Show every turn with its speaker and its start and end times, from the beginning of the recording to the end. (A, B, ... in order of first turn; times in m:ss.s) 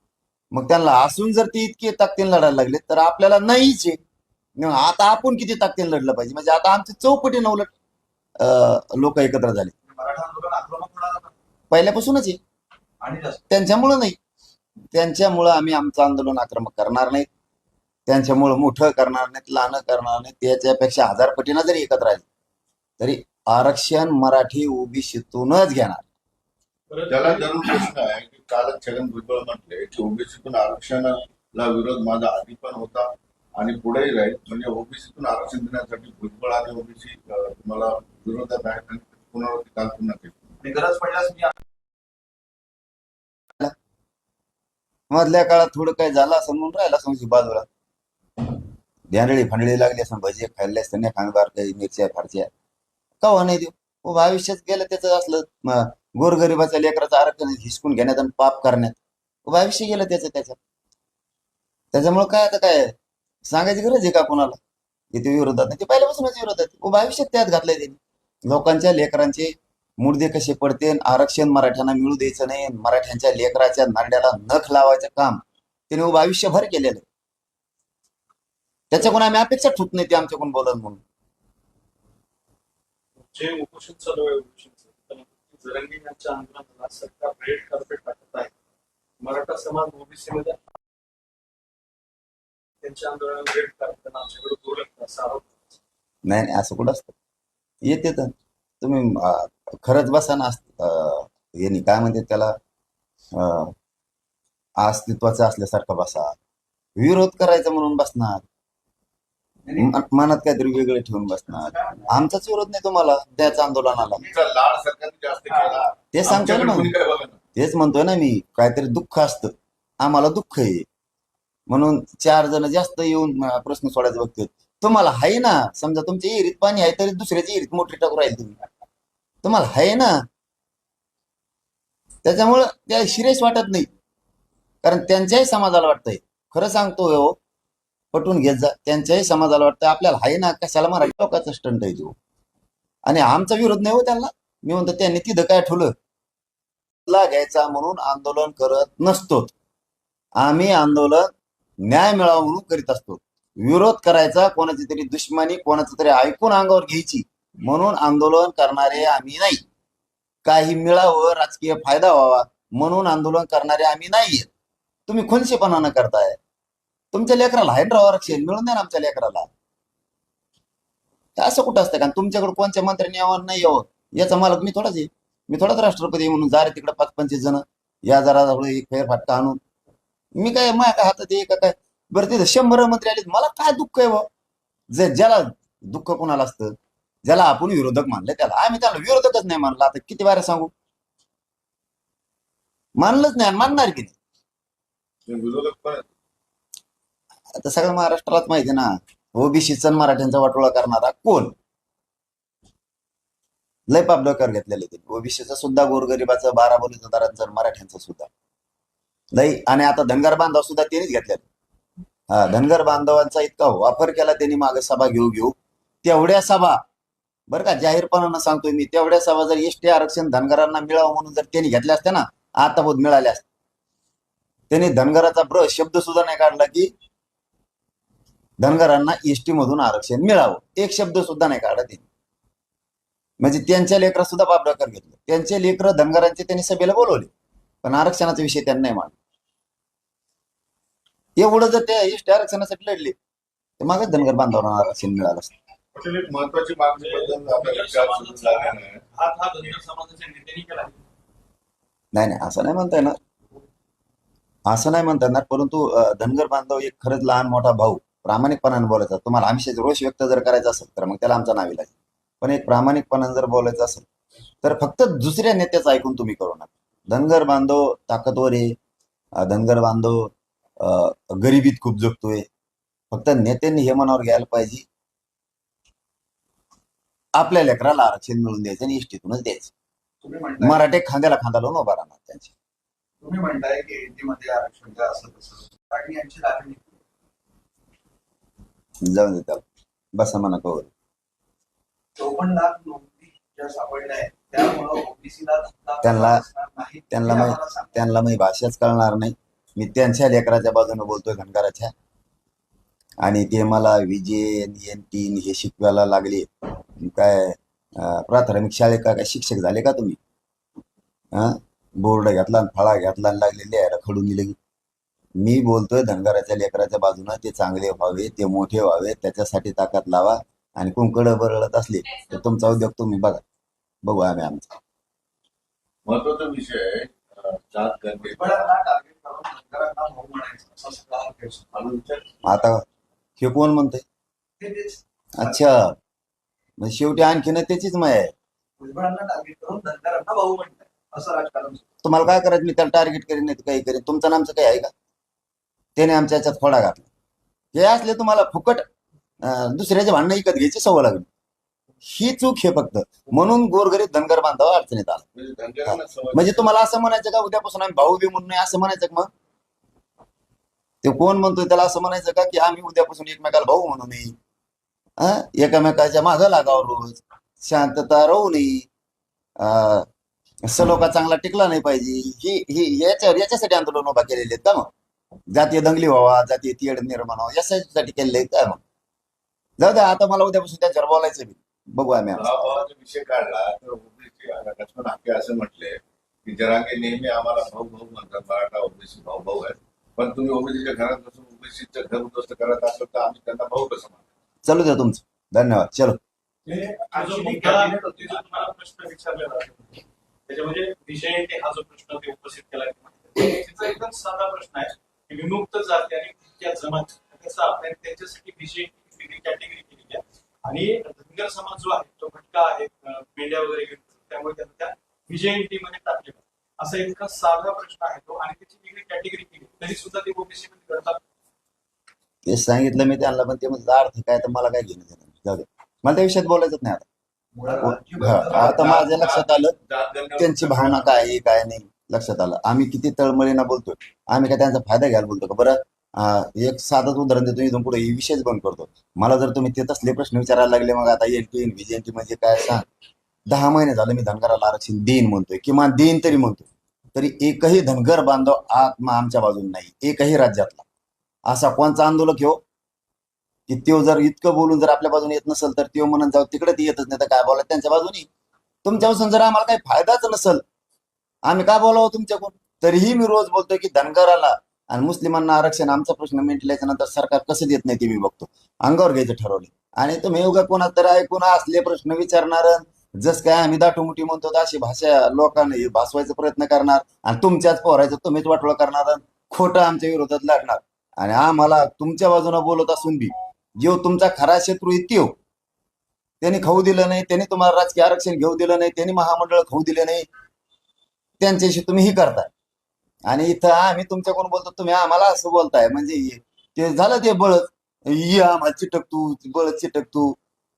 0:00.5-0:04.0 A
0:04.6-0:07.7 A
0:08.4-0:09.7 A
0:09.8-0:11.3 B
0:11.7-0:12.4 A
0:13.0-0:13.5 B
0:13.5-0:14.2 A
0:14.9-0:17.3 A
0:18.1-0:22.2 A
0:23.0-0:26.0 A
0:26.9-0:27.9 C
0:27.1-0:40.3 D
0:40.6-0:41.6 B
0:45.1-0:47.6 A
0:49.1-0:52.5 A
0:53.2-1:00.6 A
1:01.9-1:02.9 A
1:03.5-1:04.6 A
1:05.1-1:17.0 A
1:18.9-1:21.0 A
1:23.3-1:28.5 C
1:29.2-1:30.6 C
1:32.8-1:35.4 C
1:36.2-1:37.1 A
1:37.8-1:42.5 A
1:43.3-1:43.7 A
1:44.8-1:46.3 A
1:47.0-1:48.4 A
1:49.6-1:50.0 B
1:49.8-1:54.2 A
1:51.5-1:52.2 B
1:54.2-1:57.4 D
1:55.5-1:55.9 B
1:56.1-1:56.9 A
1:57.5-2:00.8 A
2:01.7-2:08.6 A
2:09.4-2:10.2 A
2:12.2-2:13.9 A
2:14.8-2:17.4 A
2:18.1-2:22.1 A
2:23.0-2:25.9 A
2:27.0-2:29.5 A
2:30.4-2:31.3 A
2:31.8-2:39.6 A
2:40.4-2:44.5 A
2:45.1-2:46.4 A
2:47.1-2:49.5 A
2:51.4-2:59.6 A
3:00.4-3:04.3 A
3:04.9-3:06.7 A
3:07.2-3:10.7 A
3:13.0-3:14.1 A
3:15.3-3:16.0 D
3:17.5-3:21.5 A
3:23.9-3:28.3 A
3:29.3-3:31.4 A
3:32.3-3:36.8 A
3:37.5-3:43.4 A
3:44.7-3:46.9 A
3:48.6-3:52.0 A
3:53.4-3:57.3 A
3:57.8-3:59.2 A
4:01.4-4:03.2 A
4:03.8-4:05.5 A
4:05.9-4:09.0 D
4:07.0-4:11.0 C
4:12.1-4:13.2 A
4:14.6-4:24.0 A
4:24.6-4:28.7 A
4:29.4-4:32.4 A
4:33.1-4:34.8 A
4:37.3-4:39.7 A
4:40.2-4:40.8 B
4:40.6-4:42.5 A
4:43.2-4:47.0 B
4:49.0-4:50.9 A
4:52.2-4:58.2 B
4:56.0-4:56.4 A
4:57.1-5:01.9 A
5:03.2-5:10.2 A
5:11.3-5:14.6 A
5:15.4-5:23.4 A
5:24.0-5:24.7 A
5:26.0-5:28.6 D
5:28.2-5:31.6 B
5:31.7-5:32.4 D
5:32.4-5:32.8 A
5:33.4-5:34.0 A
5:34.6-5:35.6 B
5:35.4-5:36.0 A
5:36.8-5:38.3 A
5:38.8-5:41.8 B
5:42.0-5:44.9 A
5:46.0-5:47.1 A
5:47.7-5:48.8 A
5:49.4-5:51.3 A
5:52.0-5:55.2 A
5:55.3-5:56.7 D
5:55.8-5:59.3 A
6:01.0-6:04.3 A
6:05.2-6:08.9 A
6:09.6-6:10.1 A
6:10.6-6:14.9 A
6:15.5-6:18.8 A
6:19.8-6:22.8 A
6:22.3-6:34.2 D
6:34.6-6:36.2 A
6:36.6-6:38.4 B
6:37.1-7:01.2 C
7:02.4-7:07.0 A
7:07.5-7:09.1 B
7:07.7-7:09.7 A
7:08.5-7:11.3 D
7:10.4-7:22.8 A
7:23.5-7:30.8 A
7:31.5-7:32.6 A
7:33.7-7:38.3 A
7:38.8-7:40.6 A
7:41.5-8:05.3 A
8:06.4-8:10.2 A
8:11.4-8:12.5 A
8:13.3-8:20.4 A